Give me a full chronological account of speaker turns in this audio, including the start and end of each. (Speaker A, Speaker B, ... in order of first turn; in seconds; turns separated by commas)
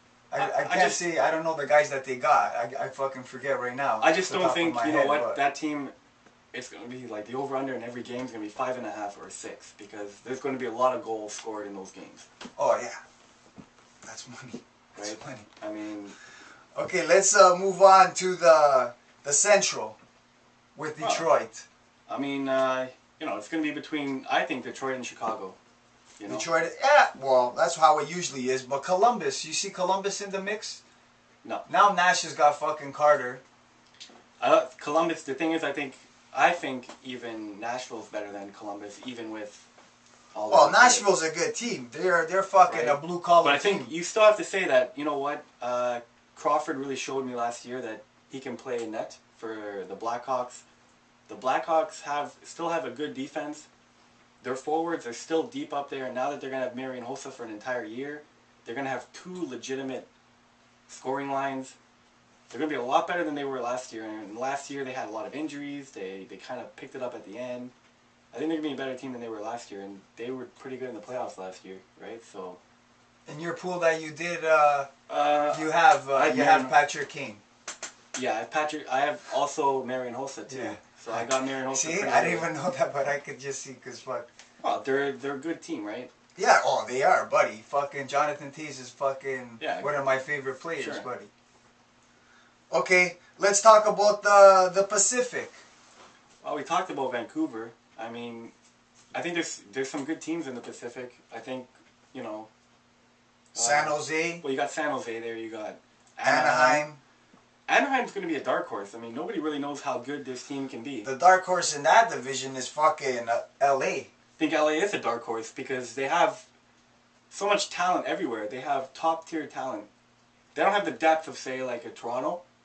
Speaker A: 0.3-5.4, Speaker B: 0.3-1.1, Speaker B: 4.0-5.9, Speaker B: 6.5-12.3, Speaker A: 12.6-13.0, Speaker A: 14.1-15.5, Speaker B: 15.0-16.2, Speaker A: 16.8-20.0, Speaker A: 20.8-21.7, Speaker B: 21.0-21.3, Speaker B: 22.1-25.6, Speaker B: 26.2-26.5, Speaker A: 26.3-30.8, Speaker A: 31.7-33.4, Speaker B: 34.4-39.7, Speaker B: 40.3-41.1, Speaker A: 40.5-43.9, Speaker B: 42.7-50.6, Speaker B: 51.3-53.7, Speaker B: 54.4-60.1, Speaker B: 60.9-61.8, Speaker B: 62.5-67.7, Speaker B: 68.3-72.6, Speaker A: 73.3-74.9, Speaker B: 75.1-76.8, Speaker A: 75.5-77.4, Speaker B: 78.1-82.5, Speaker A: 80.5-84.3, Speaker B: 84.6-86.1, Speaker A: 86.4-91.3, Speaker B: 89.6-90.0, Speaker B: 90.8-91.1, Speaker A: 92.7-95.6, Speaker B: 96.4-98.5, Speaker B: 99.1-102.5, Speaker A: 103.5-104.4, Speaker B: 103.5-106.9, Speaker A: 106.2-107.0, Speaker B: 107.7-111.1, Speaker A: 111.0-114.1, Speaker B: 114.4-116.5, Speaker B: 117.3-119.9, Speaker B: 120.5-122.4